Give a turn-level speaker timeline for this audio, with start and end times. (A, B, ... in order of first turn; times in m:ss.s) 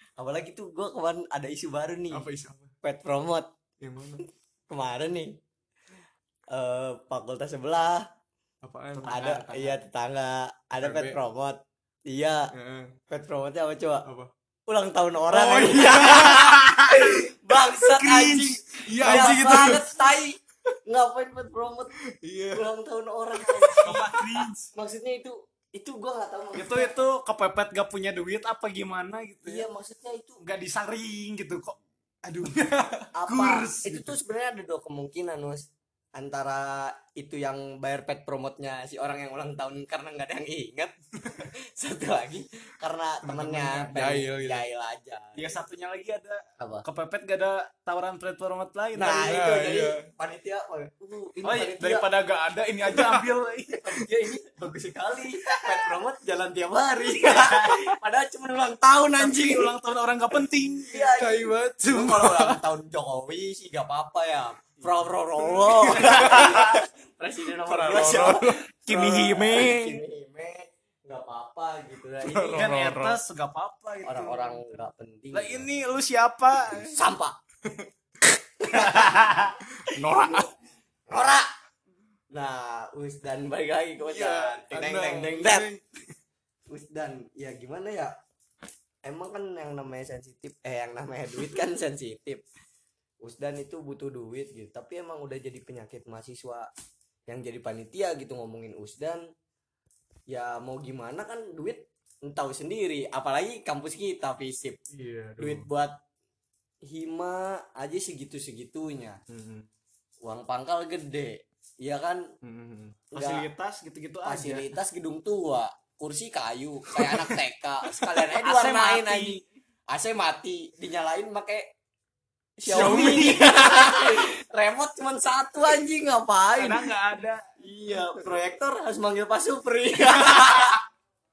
0:00.2-0:02.3 A
0:02.1-0:02.7 B
0:02.8-0:03.5 A
0:03.8-0:04.2 B
0:04.7-0:05.4 A
0:06.5-0:08.1 A
0:08.6-0:09.3 B
0:09.0-0:09.8 C
0:09.0-0:12.5 A
0:10.8-0:11.2 B
0:12.5-0:13.0 B
0:13.1-0:14.1 A
0:14.1-0:14.3 B
0:14.7-0:21.9 A
0:15.3-0:17.2 B
0:16.6-0:17.0 C
0:18.0-0:20.0 B
0:18.0-0:18.4 C
0:19.0-0:19.8 C
0:22.1-0:22.7 B
0:22.5-0:27.0 A
0:23.4-0:24.5 B
0:23.8-0:24.7 C
0:26.6-0:29.7 C
0:29.4-0:30.4 A
0:30.4-0:34.1 C
0:33.1-0:45.6 A
0:43.3-0:43.9 C
0:43.4-0:44.6 B
0:45.4-0:49.4 C
0:46.6-0:46.8 A
0:49.0-0:52.1 A
0:49.2-0:50.0 B
0:51.4-0:54.0 C
0:53.0-0:53.2 B
0:53.7-0:59.8 A
0:55.4-0:55.9 C
0:57.1-0:57.9 C
0:59.2-1:01.1 C
1:00.8-1:12.7 A
1:01.1-1:02.6 B
1:04.8-1:06.8 C
1:05.9-1:06.6 B
1:07.6-1:08.6 B
1:08.9-1:10.0 C
1:12.2-1:13.2 B
1:12.5-1:17.0 C
1:14.0-1:15.7 A
1:16.7-1:17.4 A
1:18.6-1:19.5 A
1:18.7-1:19.6 C
1:19.8-1:20.5 B
1:20.0-1:20.5 A
1:21.1-1:21.5 A
1:22.3-1:25.7 A
1:24.0-1:25.8 B
1:26.7-1:28.2 A
1:29.0-1:32.4 A
1:33.2-1:36.7 A
1:37.3-1:39.2 A
1:40.3-1:44.8 A
1:44.9-1:45.7 B
1:45.4-1:46.0 A
1:46.8-1:49.2 A
1:49.3-1:49.7 B
1:50.2-1:52.3 A
1:52.4-1:53.0 B
1:53.1-1:53.5 A
1:53.1-1:54.7 C
1:54.2-2:01.7 A
1:58.2-1:59.5 C
2:02.6-2:06.9 A
2:02.7-2:03.8 B
2:02.7-2:03.5 C
2:06.6-2:07.5 C
2:07.6-2:10.8 A